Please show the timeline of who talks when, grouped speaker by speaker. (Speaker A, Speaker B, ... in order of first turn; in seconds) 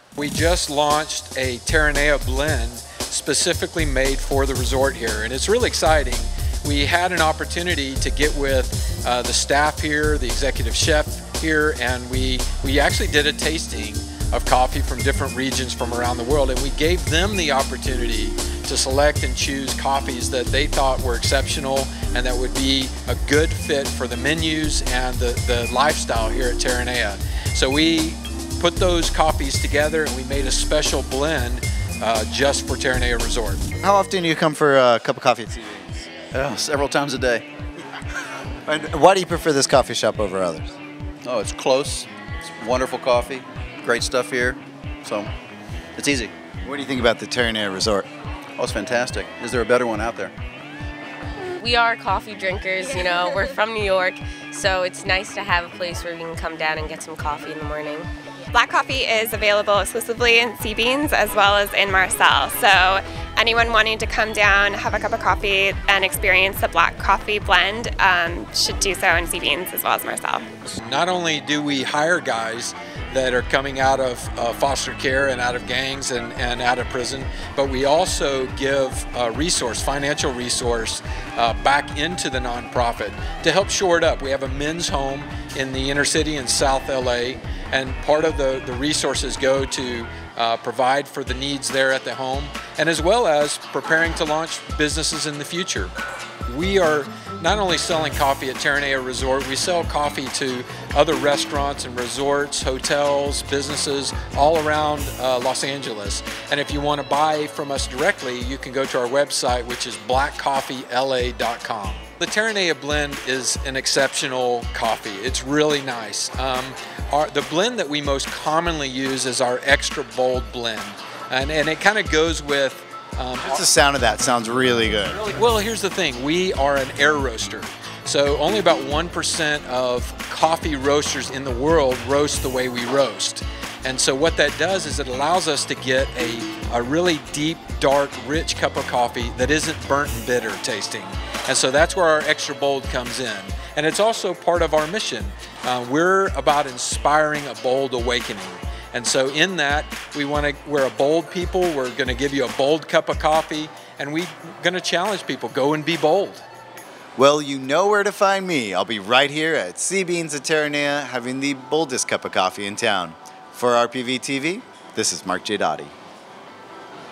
Speaker A: 0.2-33.6, 70.7-95.9, 96.5-123.6, 125.0-156.4
Speaker B: 33.8-36.1, 38.7-40.7, 46.6-48.1, 123.4-125.2, 157.2-165.9
Speaker C: 36.3-37.5, 41.2-45.3, 46.0-46.3, 48.6-50.3
Speaker D: 51.6-58.1
Speaker E: 58.5-70.5